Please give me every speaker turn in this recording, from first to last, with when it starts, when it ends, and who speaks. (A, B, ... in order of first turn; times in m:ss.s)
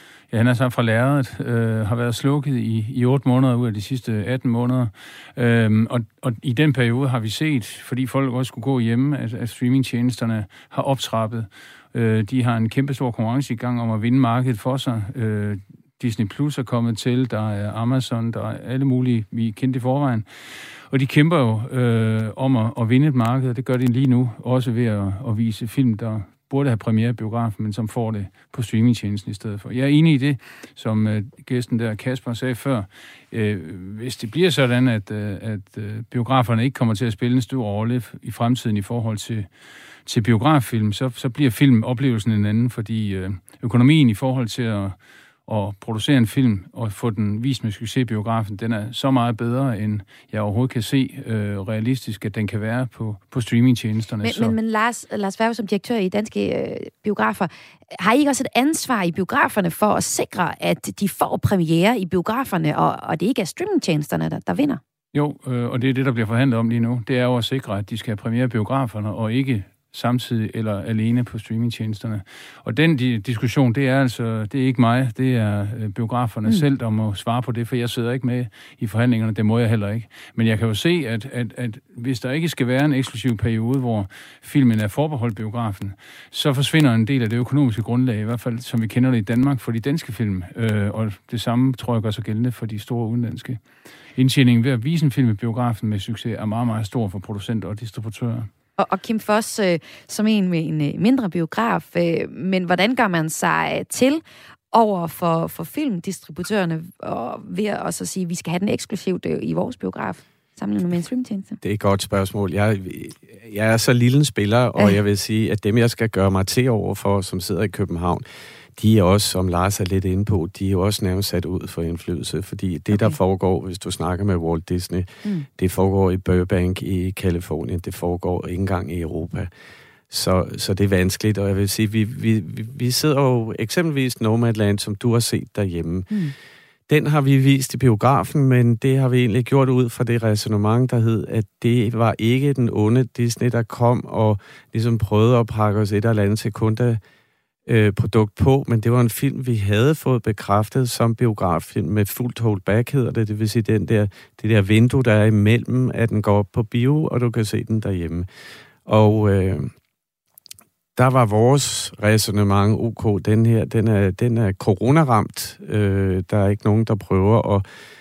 0:00.3-0:20.2 A
0:20.9-0:39.5 A
0:40.0-0:54.6 A
0:54.2-1:04.8 B
1:05.1-1:33.6 A
1:34.2-1:38.5 A
1:38.8-1:51.6 B
1:51.6-1:58.2 C
1:58.8-2:09.5 C
2:02.9-2:03.2 B
2:10.1-2:16.2 C
2:16.9-2:27.0 C
2:27.7-2:38.3 C
2:38.8-2:39.7 C
2:41.0-2:47.6 C